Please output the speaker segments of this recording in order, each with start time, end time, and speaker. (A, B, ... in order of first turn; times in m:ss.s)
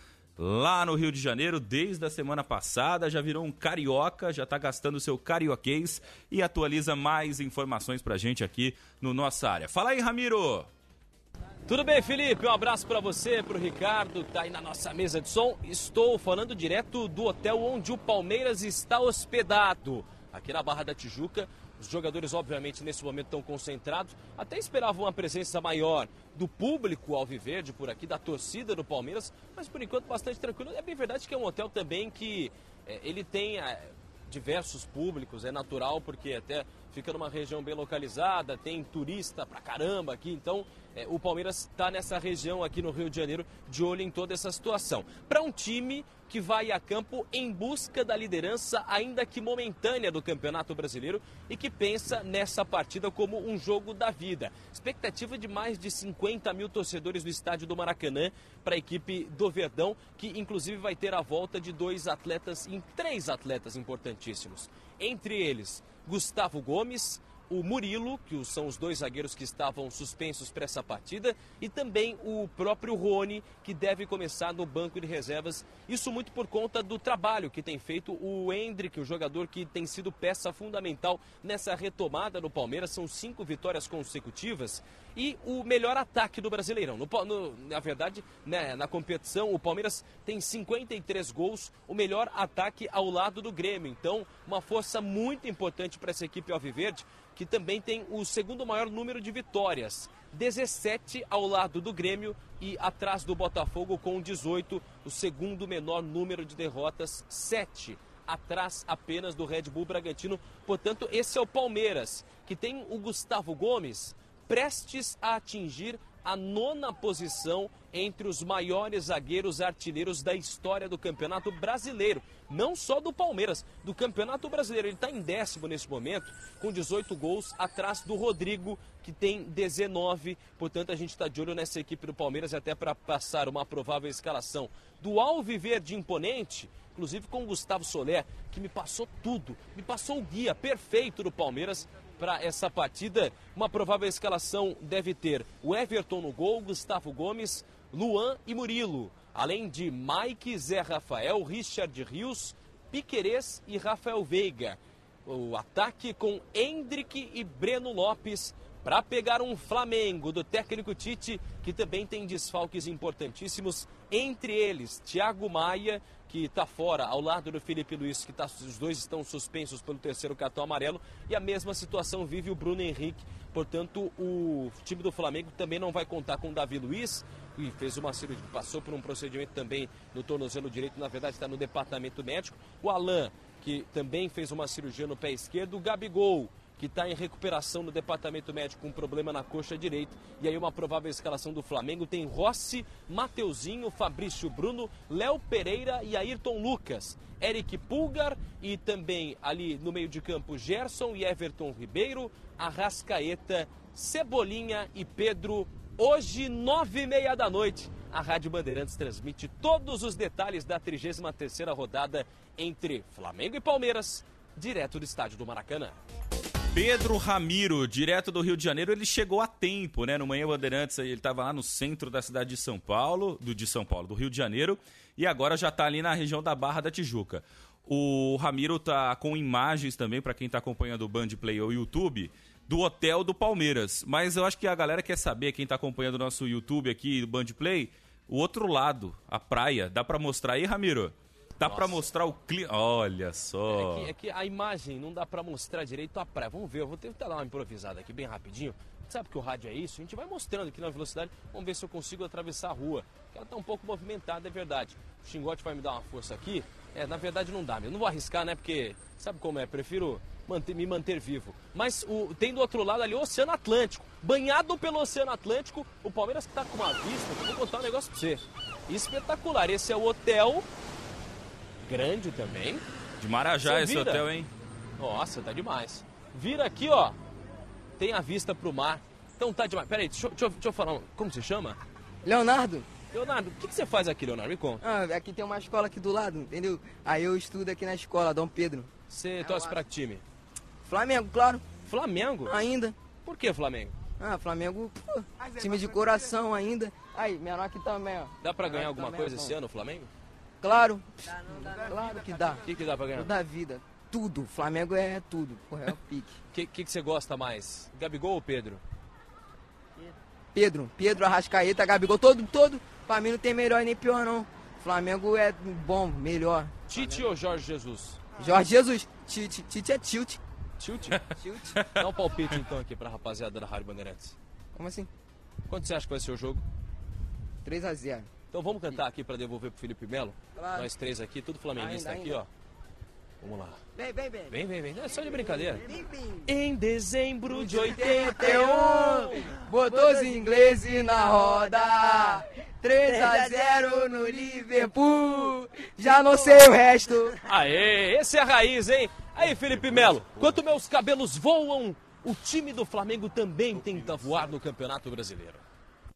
0:00.4-0:10.7 A
0:11.7-3:36.0 B
3:36.7-4:04.1 A
4:01.6-4:02.1 B
4:03.7-4:30.7 B
4:31.8-4:32.8 B
4:33.2-4:34.5 A
4:33.6-4:34.3 B
4:35.0-4:37.2 B
4:38.0-4:41.8 B
4:42.2-4:42.9 C
4:43.1-4:44.8 B
4:44.8-4:48.9 C
4:49.1-4:50.2 B
4:50.9-4:51.6 C
4:51.8-4:52.6 B
4:52.5-4:53.0 C
4:53.2-4:54.0 B
4:54.2-4:59.5 C
4:58.4-5:00.1 B
5:00.6-5:01.1 C
5:01.9-5:02.6 C
5:02.6-5:03.3 B
5:03.2-5:06.4 C
5:06.5-5:08.8 B
5:10.6-5:17.2 C
5:16.9-5:18.2 B
5:18.4-5:20.4 C
5:20.8-5:21.2 B
5:22.0-5:24.4 B
5:24.8-5:25.1 C
5:25.7-5:26.6 B
5:27.6-5:28.3 C
5:28.5-5:32.5 B
5:30.6-5:30.9 C
5:31.8-5:32.4 C
5:33.4-5:33.8 B
5:34.0-5:34.4 C
5:34.5-5:35.9 B
5:36.5-5:38.5 B
5:37.5-5:47.3 C
5:47.5-5:55.6 B